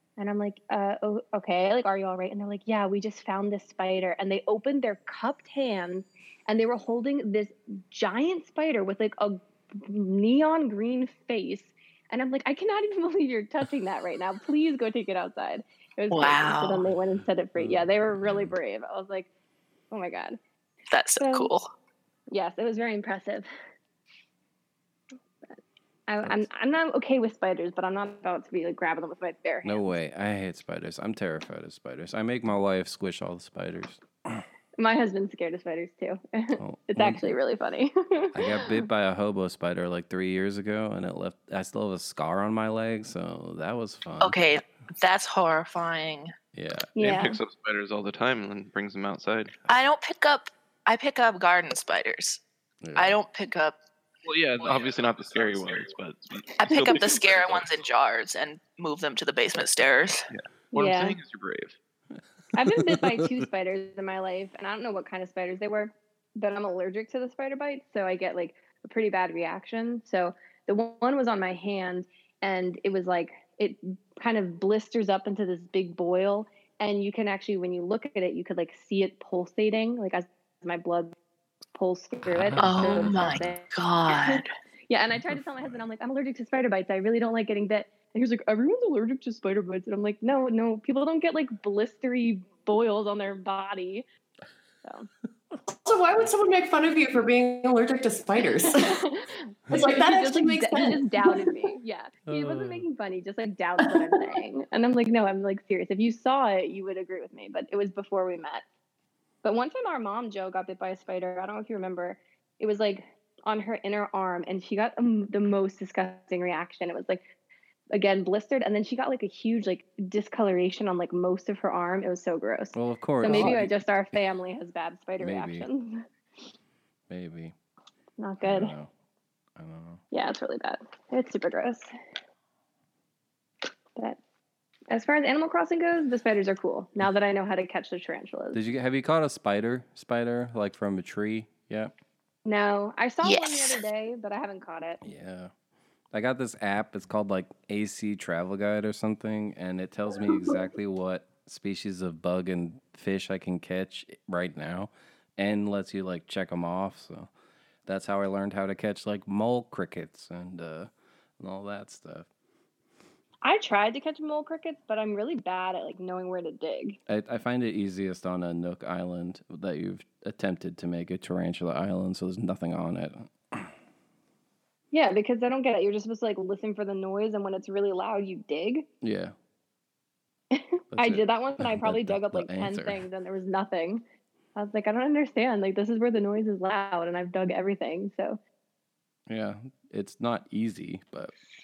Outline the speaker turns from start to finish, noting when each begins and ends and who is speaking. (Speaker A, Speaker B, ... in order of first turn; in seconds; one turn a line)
Speaker A: 0.2-19.3
Speaker B: 16.1-16.8
Speaker C: 17.6-18.5
Speaker A: 19.9-20.4
Speaker B: 20.9-21.7
Speaker A: 21.2-21.5
Speaker A: 22.3-23.5
Speaker A: 25.5-30.0
Speaker C: 29.6-34.5
Speaker A: 34.8-38.8
Speaker C: 36.6-37.3
Speaker C: 38.4-44.4
Speaker B: 44.2-46.3
Speaker C: 46.5-47.3
Speaker A: 47.0-47.4
Speaker D: 47.0-49.5
Speaker B: 49.7-52.4
Speaker C: 52.8-53.2
Speaker B: 53.0-53.8
Speaker D: 54.2-57.7
Speaker B: 56.6-60.2
Speaker D: 60.3-61.8
Speaker A: 60.7-61.2
Speaker A: 62.5-81.2
Speaker C: 62.6-63.4
Speaker A: 81.8-94.1
Speaker C: 82.3-83.5
Speaker B: 82.6-84.5
Speaker C: 85.3-85.7
Speaker A: 94.8-95.1
Speaker E: 95.7-99.0
Speaker A: 98.7-108.6
Speaker E: 99.7-101.5
Speaker C: 102.3-102.8
Speaker E: 103.9-104.3
Speaker A: 109.4-117.2
Speaker A: 117.9-126.0
Speaker C: 122.7-123.8
Speaker C: 125.2-125.7
Speaker C: 127.1-127.5
Speaker A: 128.2-128.7
Speaker C: 128.4-128.9
Speaker C: 129.6-130.0
Speaker A: 130.1-131.9
Speaker A: 134.9-138.6
Speaker C: 138.5-141.9
Speaker A: 142.4-145.0
Speaker B: 143.2-143.8
Speaker C: 145.0-145.5
Speaker C: 146.1-157.3
Speaker C: 157.9-162.3
Speaker A: 163.4-167.0
Speaker C: 167.1-173.7
Speaker A: 174.9-178.9
Speaker C: 179.0-179.3
Speaker A: 180.5-184.0
Speaker C: 180.9-183.1
Speaker A: 184.6-188.4
Speaker C: 189.3-191.3